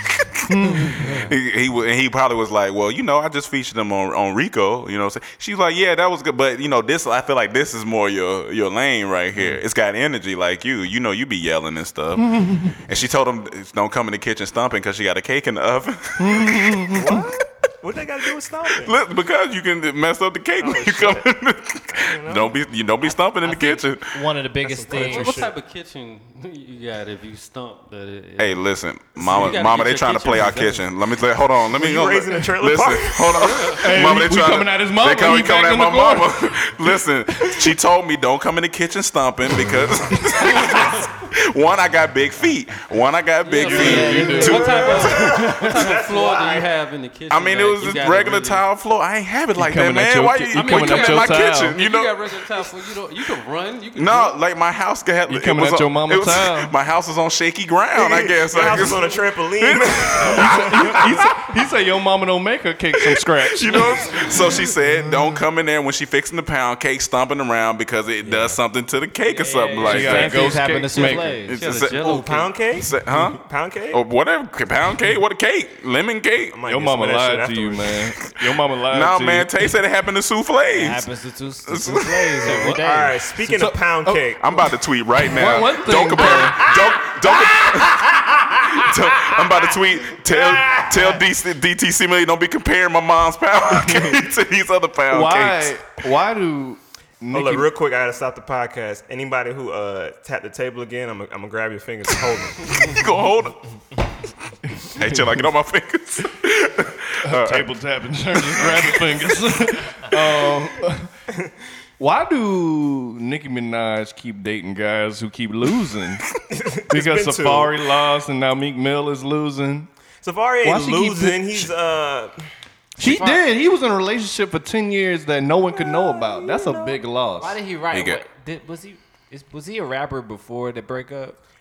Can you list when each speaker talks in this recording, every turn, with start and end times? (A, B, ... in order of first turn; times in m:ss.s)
0:00.5-0:01.3 A
0:01.0-0:16.9 B
0:12.2-0:12.8 A
0:16.2-0:17.3 A
0:16.9-0:19.0 C
0:18.7-0:24.2 B
0:20.6-0:21.3 C
0:21.9-0:22.6 C
0:23.4-0:25.4 D
0:24.6-0:25.5 C
0:24.9-0:30.9 E
0:28.4-0:45.7 B
0:31.7-0:33.8 C
0:33.4-0:33.9 E
0:33.8-0:37.6 A
0:43.4-0:48.7 E
0:43.7-0:44.7 A
0:43.7-0:44.9 D
0:44.4-0:46.7 C
0:47.3-0:52.2 B
0:49.6-0:51.8 A
0:50.5-0:54.4 E
0:54.0-1:01.4 B
0:55.3-0:56.8 A
0:58.0-1:01.0 C
1:00.2-1:04.2 A
1:03.0-1:10.6 B
1:04.1-1:04.4 C
1:05.1-1:05.4 A
1:09.3-1:10.2 E
1:09.4-1:11.6 D
1:09.8-1:11.4 A
1:10.8-1:12.7 E
1:11.4-1:12.2 B
1:11.8-1:14.0 C
1:12.8-1:16.6 B
1:16.5-1:18.0 C
1:16.6-1:19.5 A
1:18.2-1:21.1 B
1:20.7-1:23.3 D
1:21.7-1:22.6 B
1:22.4-1:22.8 E
1:22.6-1:24.4 C
1:23.4-1:24.6 A
1:24.4-1:35.9 B
1:25.3-1:26.7 A
1:26.1-1:29.7 D
1:30.3-1:31.2 D
1:33.7-1:34.2 A
1:35.1-1:37.7 A
1:37.3-1:43.1 C
1:42.7-1:43.6 B
1:44.8-1:45.4 A
1:44.9-1:47.7 B
1:47.2-1:51.1 A
1:48.5-1:49.0 B
1:52.0-1:56.3 A
1:56.5-1:57.8 C
1:56.9-1:59.9 A
2:00.2-2:02.4 C
2:00.6-2:01.7 A
2:03.0-2:03.5 D
2:03.0-2:07.6 A
2:05.7-2:07.0 C
2:07.4-2:11.4 D
2:07.9-2:08.2 B